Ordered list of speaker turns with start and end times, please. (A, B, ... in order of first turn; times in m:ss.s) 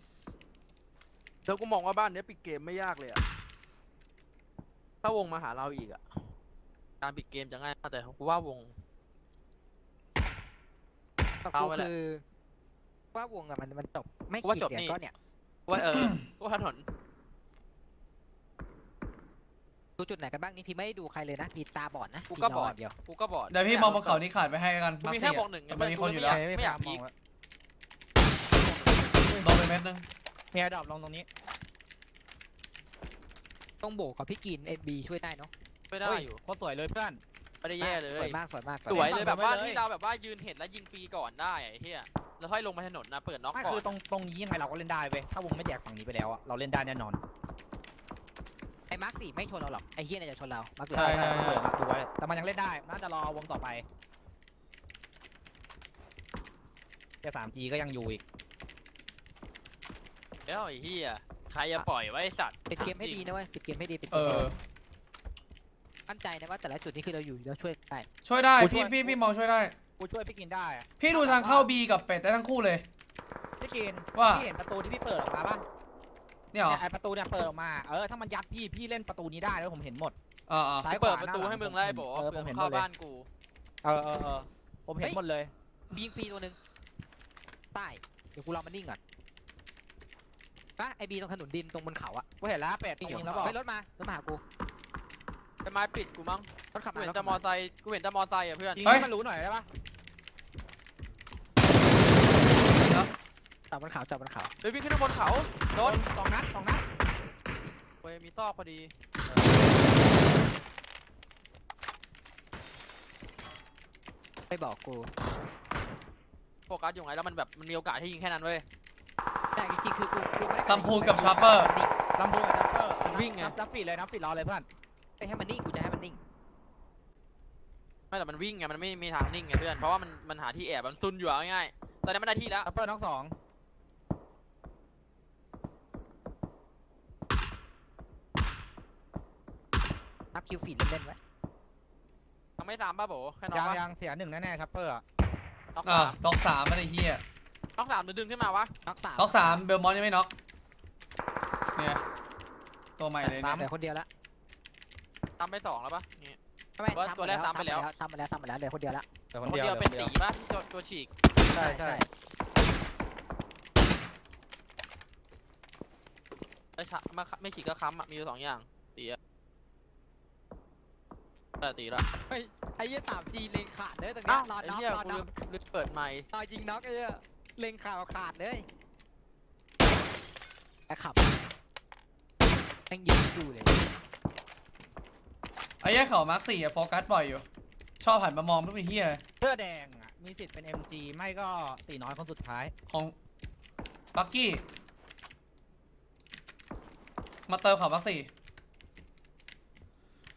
0:01.4-0:03.2 A
0:05.0-0:06.0 A
0:07.0-0:08.7 A
0:11.4-0:12.2 B
0:11.6-0:11.9 A
0:13.1-0:15.1 B
0:14.4-0:15.0 A
0:15.7-0:16.8 A
0:20.0-0:23.0 B
0:22.3-0:24.2 A
0:23.5-0:26.4 C
0:25.0-0:27.0 A
0:26.2-0:27.1 D
0:29.4-0:30.0 C
0:30.5-0:31.3 D
0:33.8-0:35.5 B
0:35.9-0:36.4 A
0:36.0-0:37.2 D
0:37.6-0:43.8 A
0:37.8-0:39.2 B
0:38.9-0:39.8 D
0:43.5-0:47.2 D
0:48.9-0:51.4 B
0:50.9-0:53.8 D
0:51.0-0:51.7 C
0:57.2-0:58.2 D
1:00.5-1:03.2 A
1:02.7-1:04.5 B
1:04.1-1:04.6 C
1:06.1-1:08.1 B
1:08.2-1:09.8 C
1:08.6-1:09.2 D
1:10.0-1:11.7 D
1:11.0-1:12.8 C
1:13.6-1:15.6 D
1:14.2-1:14.5 C
1:16.5-1:16.8 C
1:16.7-1:20.2 D
1:20.5-1:20.9 C
1:20.8-1:22.9 D
1:20.9-1:23.3 A
1:23.8-1:25.5 D
1:25.9-1:26.6 B
1:27.7-1:29.0 B
1:30.8-1:32.2 B
1:32.4-1:33.6 D
1:33.0-1:34.4 B
1:33.0-1:33.5 A
1:35.6-1:38.9 A
1:36.7-1:37.4 B
1:38.7-1:39.7 D
1:42.8-1:43.1 C
1:43.7-1:44.5 B
1:44.6-1:46.0 A
1:45.8-1:46.8 D
1:48.0-1:48.9 A
1:49.3-1:49.6 D
1:54.5-1:55.1 B
1:56.7-1:58.6 A
1:59.6-2:01.9 B
2:00.7-2:01.7 C
2:02.2-2:04.7 D
2:03.1-2:03.6 A
2:05.2-2:06.2 B
2:08.1-2:12.7 A
2:12.7-2:13.4 D
2:20.3-2:21.2 B
2:22.6-2:23.8 A
2:23.5-2:25.0 D
2:25.8-2:26.2 A
2:25.8-2:27.2 C
2:27.8-2:28.7 A
2:28.9-2:29.6 B
2:29.2-2:30.3 C
2:31.8-2:32.0 C
2:33.0-2:33.6 C
2:33.2-2:33.7 D
2:33.2-2:34.1 B
2:35.4-2:36.4 A
2:36.8-2:39.0 B
2:36.9-2:37.9 A
2:39.3-2:40.1 D
2:39.4-2:41.1 A
2:41.5-2:42.1 B
2:41.6-2:42.0 D
2:46.8-2:49.2 A
2:51.6-2:52.1 A
2:52.3-2:55.3 B
2:54.3-2:56.3 A
2:56.3-2:58.7 B
3:00.9-3:01.3 B
3:02.9-3:03.9 B
3:05.8-3:07.4 C
3:08.0-3:09.2 C
3:09.4-3:12.7 D
3:12.9-3:13.1 C
3:14.1-3:14.6 C
3:17.5-3:18.3 C